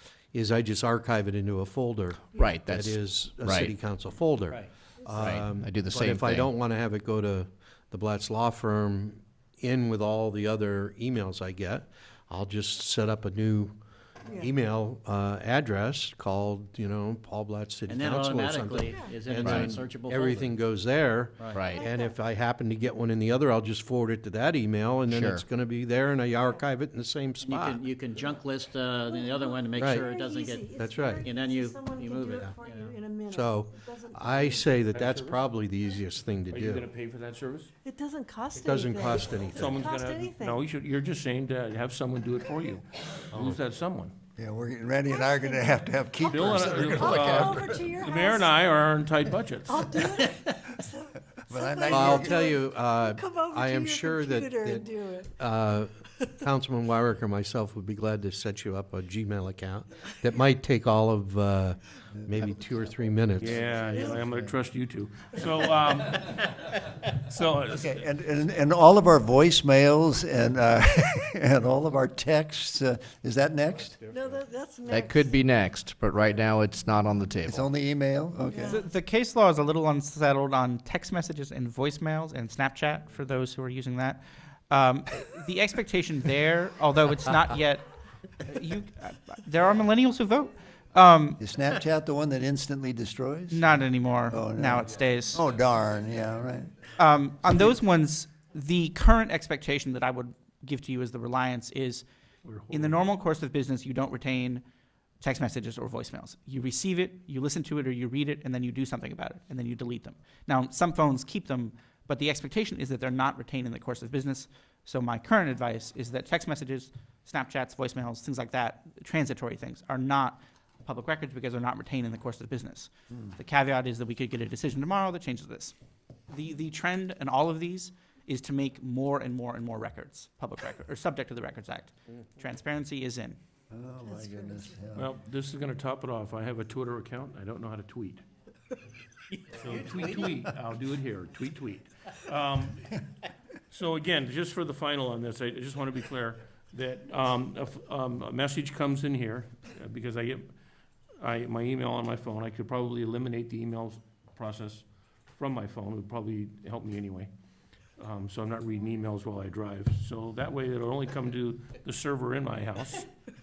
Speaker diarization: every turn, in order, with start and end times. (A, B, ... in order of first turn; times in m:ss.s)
0:00.3-0:28.0 A
0:02.3-0:03.7 B
0:04.5-0:04.7 C
0:05.0-0:05.3 D
0:05.2-0:06.5 B
0:14.2-0:14.5 D
0:17.8-0:20.7 C
0:18.8-0:19.2 D
0:19.4-0:19.7 B
0:21.4-0:21.7 C
0:21.5-0:21.8 B
0:21.7-0:22.2 D
0:25.1-0:25.4 B
0:27.4-0:33.0 C
0:29.0-0:34.9 D
0:29.7-0:30.1 A
0:30.6-0:31.3 A
0:33.3-0:36.9 A
0:34.9-0:35.4 E
0:36.5-0:37.7 E
0:37.8-0:40.6 D
0:38.6-0:39.7 A
0:39.4-0:44.1 E
0:44.4-0:47.8 F
0:45.0-0:48.5 D
0:46.3-0:49.9 E
0:49.7-0:55.4 D
0:51.5-0:52.6 F
0:51.9-1:03.6 A
1:03.4-1:08.0 E
1:03.6-1:04.5 F
1:03.8-1:04.2 D
1:07.7-1:14.0 F
1:14.0-1:15.4 D
1:14.9-1:17.7 B
1:17.4-1:18.8 F
1:18.5-1:18.8 D
1:18.6-1:31.4 G
1:31.4-1:33.6 F
1:33.5-1:35.4 G
1:34.3-1:36.7 F
1:37.0-1:42.0 G
1:42.4-1:43.1 E
1:42.7-1:44.6 G
1:45.2-2:05.7 G
2:06.3-2:13.4 G
2:13.7-2:15.1 F
2:14.0-2:14.8 D
2:15.0-2:18.2 E
2:19.5-2:23.0 E
2:19.8-2:20.2 C
2:23.7-2:30.5 E
2:31.2-2:37.3 E
2:38.0-2:43.1 E